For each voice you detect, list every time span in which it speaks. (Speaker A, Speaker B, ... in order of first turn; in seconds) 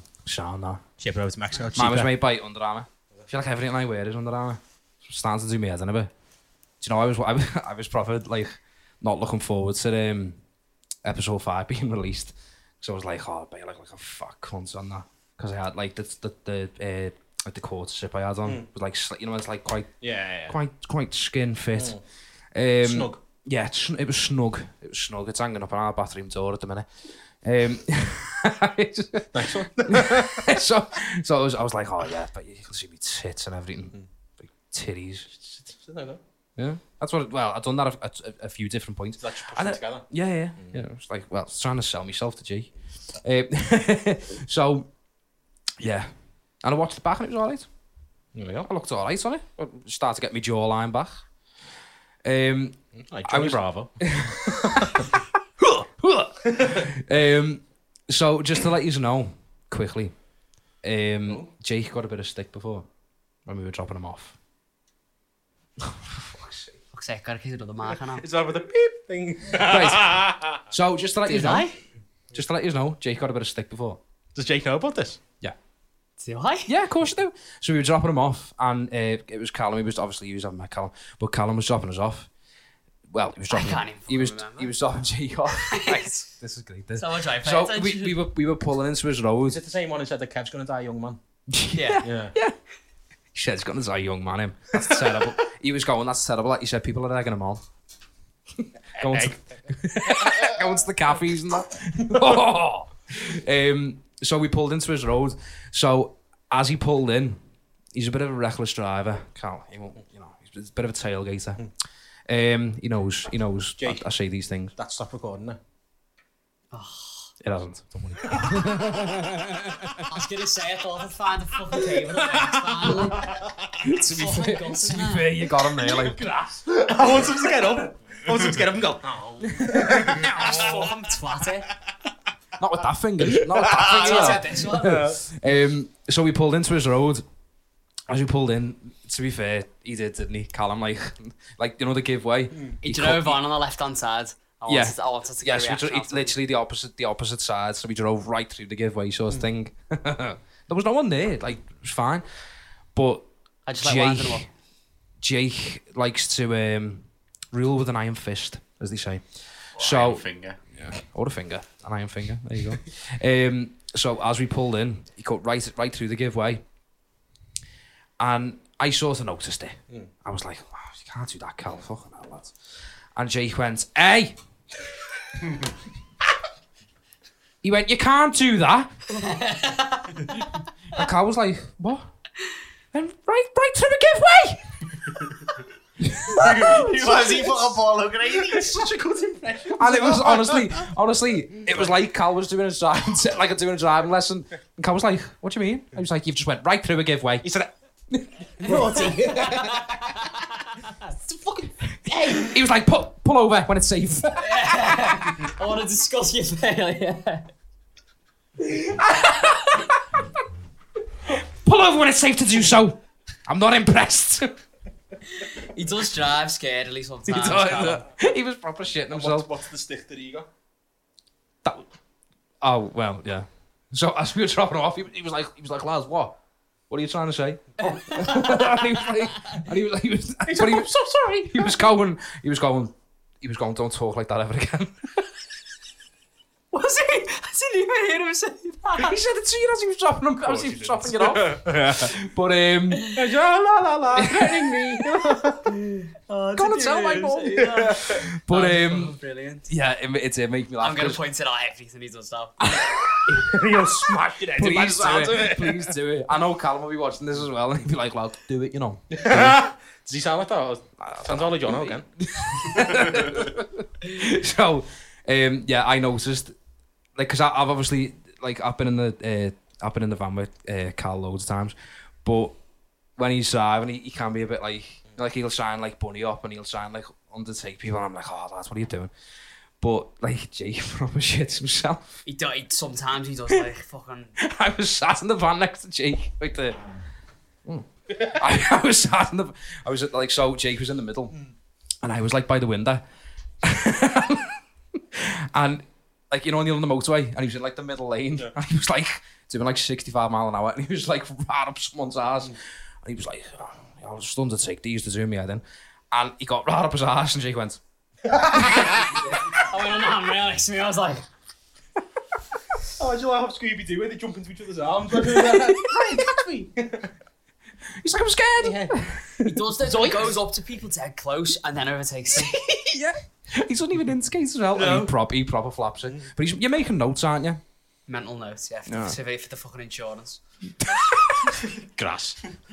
Speaker A: 0.2-0.8, 1.7-6.1, 6.8-10.4, 11.0-22.0, 22.5-26.9, 27.4-35.3, 36.6-44.9, 45.8-46.1, 46.6-47.7, 48.6-51.2, 52.2-60.1, 60.8-62.9, 63.5-64.3, 65.8-66.7, 69.5-71.7, 72.3-74.0, 76.7-82.3, 83.1-89.6, 91.5-92.5, 93.3-97.6, 98.6-107.4, 107.9-111.7, 112.3-114.7, 117.4-120.1, 122.8-123.1, 123.8-126.2, 129.6-130.8, 132.6-137.2, 138.1-143.4, 144.7-152.2, 152.9-153.3, 153.8-154.5, 155.2-166.6, 168.2-172.5, 173.1-174.4, 177.6-178.9, 180.9-182.1, 182.9-184.8, 186.0-186.9, 189.8-197.6, 198.1-199.1, 202.3-205.1, 211.3-214.5, 217.3-219.5, 222.6-226.4, 226.9-235.2, 239.0-243.2, 244.1-245.0, 246.5-249.1, 249.7-251.2, 252.7-253.9, 254.5-259.6, 261.0-266.5, 267.1-272.6, 273.2-279.1, 279.8-282.1, 284.4-286.8, 287.6-291.4, 292.0-293.0, 293.6-294.6, 295.1-307.8, 308.6-309.0, 315.2-316.2, 318.0-319.5, 322.3-327.6, 328.9-329.2, 330.8-331.5
Speaker B: 1.0-2.2, 20.0-20.6, 21.7-22.0, 22.8-23.2, 29.3-30.6, 35.3-36.2, 39.2-40.8, 48.3-48.7, 52.9-55.1, 67.9-70.6, 74.3-75.2, 89.4-91.2, 92.0-92.3, 94.8-95.2, 99.0-100.6, 113.8-114.1, 114.7-115.6, 118.1-118.8, 122.8-123.5, 125.7-130.8, 133.3-135.2, 142.5-142.8, 188.3-190.7, 197.4-197.7, 198.6-199.8, 201.2-202.6, 219.1-220.5, 230.4-231.8, 240.4-242.1, 243.1-245.8, 253.3-255.9, 259.1-262.1, 308.2-309.1, 312.8-317.1, 318.6-320.4, 324.7-325.1, 331.9-332.4
Speaker C: 66.9-68.2, 71.2-71.8, 76.2-76.7, 83.5-84.7, 85.6-86.2, 86.9-88.2, 91.7-92.0, 116.7-117.3, 120.0-125.4, 130.2-131.7, 133.8-135.0, 142.8-146.4, 153.7-154.5, 179.1-180.4, 198.7-201.1, 204.4-207.5, 209.0-209.9, 215.4-218.0, 227.8-228.9, 236.7-239.2, 245.7-249.7, 250.8-252.6, 282.2-284.4, 308.9-311.2, 319.4-322.9, 328.1-330.4
Speaker D: 159.8-160.6, 186.3-188.8